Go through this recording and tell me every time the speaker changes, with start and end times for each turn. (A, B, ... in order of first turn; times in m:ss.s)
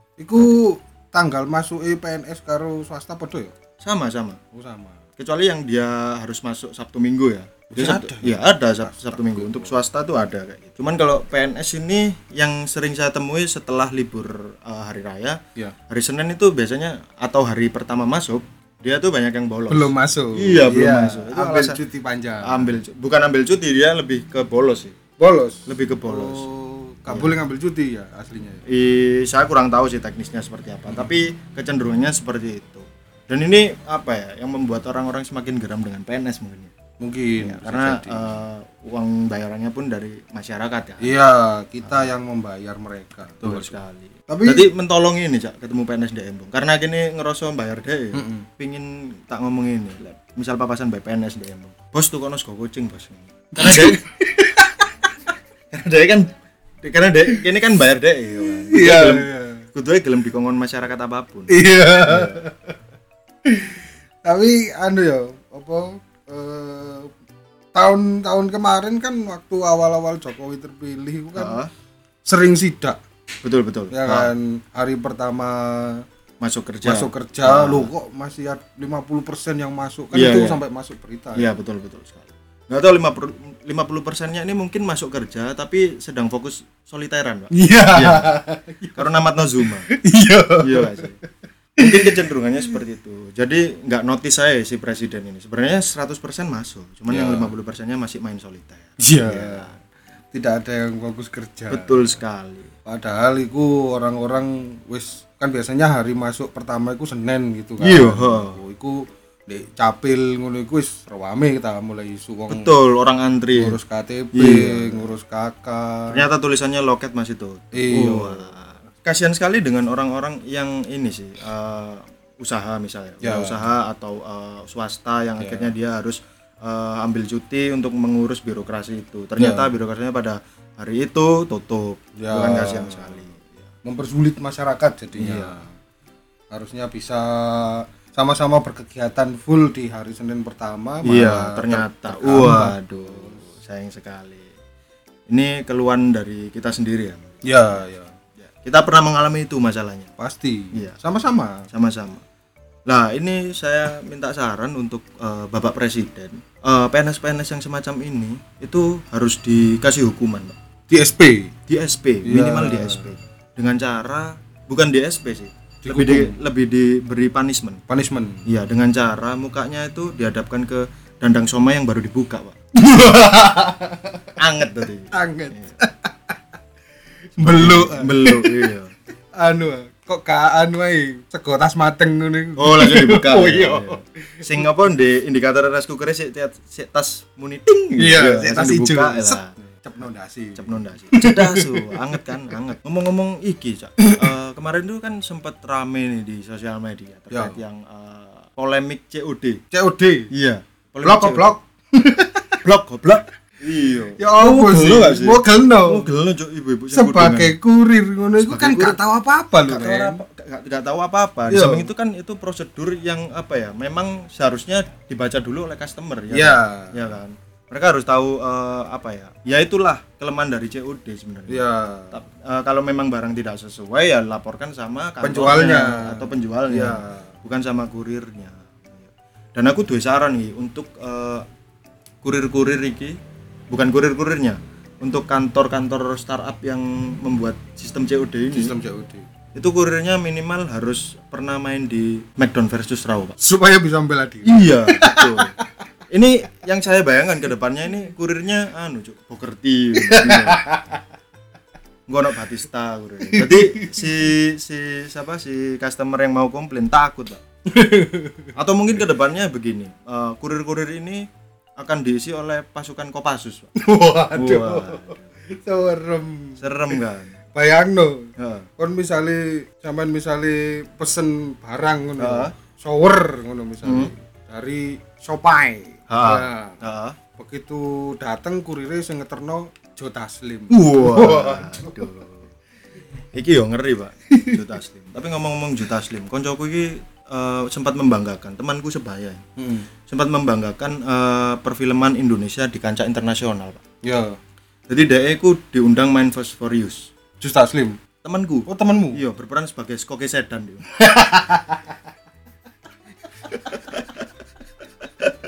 0:00.2-0:03.5 A
0:03.8-0:04.4 B
0:04.5-0:05.0 A
0:05.2-0:15.4 B
0:07.7-0:09.8 A
0:15.9-0:21.8 B
0:19.7-0:22.8 A
0:22.4-0:25.0 B
0:25.2-0:28.6 A
0:25.7-0:26.5 B
0:27.1-0:27.4 B
0:28.7-0:36.7 B
0:37.0-0:38.4 A
0:37.4-0:41.2 B
0:41.0-0:43.8 A
0:41.8-0:42.1 B
0:43.4-0:54.0 B
0:44.3-0:44.7 A
0:48.1-0:48.5 A
0:53.6-0:55.1 A
0:55.7-1:02.4 B
0:58.5-0:59.6 A
1:01.5-1:02.8 A
1:03.4-1:07.1 A
1:07.7-1:11.6 A
1:11.4-1:11.7 B
1:12.2-1:13.0 A
1:13.4-1:14.3 B
1:13.9-1:16.0 A
1:16.4-1:17.9 B
1:16.8-1:21.5 A
1:20.1-1:20.6 B
1:21.4-1:28.3 B
1:27.5-1:31.1 A
1:29.0-1:29.9 B
1:30.6-1:31.2 B
1:31.8-1:39.8 B
1:31.8-1:32.2 A
1:37.1-1:37.5 A
1:39.0-1:39.7 A
1:40.3-1:42.2 A
1:41.7-1:42.7 B
1:42.9-1:52.8 A
1:47.8-1:48.6 B
1:52.5-1:53.8 B
1:53.6-1:56.2 A
1:54.3-1:55.1 B
1:56.1-2:13.7 B
1:57.7-1:58.6 A
2:03.2-2:03.6 A
2:05.4-2:05.7 A
2:09.4-2:09.7 A
2:12.2-2:13.2 A
2:13.8-2:15.7 A
2:15.2-2:15.6 B
2:16.5-2:23.4 A
2:21.0-2:24.5 B
2:25.3-2:27.8 B
2:27.4-2:28.1 A
2:28.4-2:30.1 B
2:30.2-2:31.7 A
2:31.7-2:32.2 B
2:32.9-2:40.6 B
2:40.9-2:41.5 A
2:41.7-2:47.8 B
2:42.2-2:43.1 A
2:45.8-2:46.4 A
2:47.9-2:48.5 A
2:48.5-2:52.6 B
2:52.8-2:54.3 A
2:54.4-2:55.8 B
2:55.1-2:56.4 A
2:57.4-2:58.7 A
2:57.4-2:58.9 B
2:59.4-3:04.7 A
3:02.6-3:09.5 B
3:08.0-3:12.6 A
3:10.6-3:19.6 B
3:14.0-3:14.3 A
3:17.3-3:17.6 A
3:19.7-3:20.3 A
3:20.3-3:21.6 B
3:21.0-3:22.6 A
3:22.6-3:27.6 B
3:24.2-3:26.1 A
3:26.9-3:30.2 A
3:28.4-3:29.0 B
3:29.7-3:51.4 B
3:31.5-3:31.9 A
3:36.3-3:37.1 A
3:41.5-3:42.2 A
3:45.2-3:47.3 A
3:52.2-3:53.2 B
3:53.7-3:58.8 B
3:58.5-3:59.3 A
3:59.6-4:03.4 B
4:03.4-4:05.8 A
4:04.4-4:05.6 B
4:06.1-4:10.7 B
4:10.0-4:11.0 A
4:12.1-4:17.4 B
4:13.2-4:14.1 A
4:17.7-4:18.5 A
4:18.6-4:21.3 B
4:21.8-4:23.7 B
4:23.8-4:27.0 A
4:24.3-4:25.3 B
4:26.6-4:27.4 B
4:27.6-4:36.8 A
4:28.4-4:28.7 B
4:32.2-4:32.5 B
4:33.8-4:34.1 B
4:36.1-4:37.2 B
4:37.4-4:42.1 A
4:40.7-4:42.5 B
4:43.3-4:49.4 B
4:44.3-4:44.6 A
4:49.6-4:49.9 A
4:50.1-4:53.8 B
4:54.0-4:54.4 A
4:54.9-4:57.1 B
4:57.4-4:58.0 A
4:58.2-5:00.9 B
4:58.7-4:59.2 A
5:01.0-5:02.0 A
5:03.6-5:04.2 B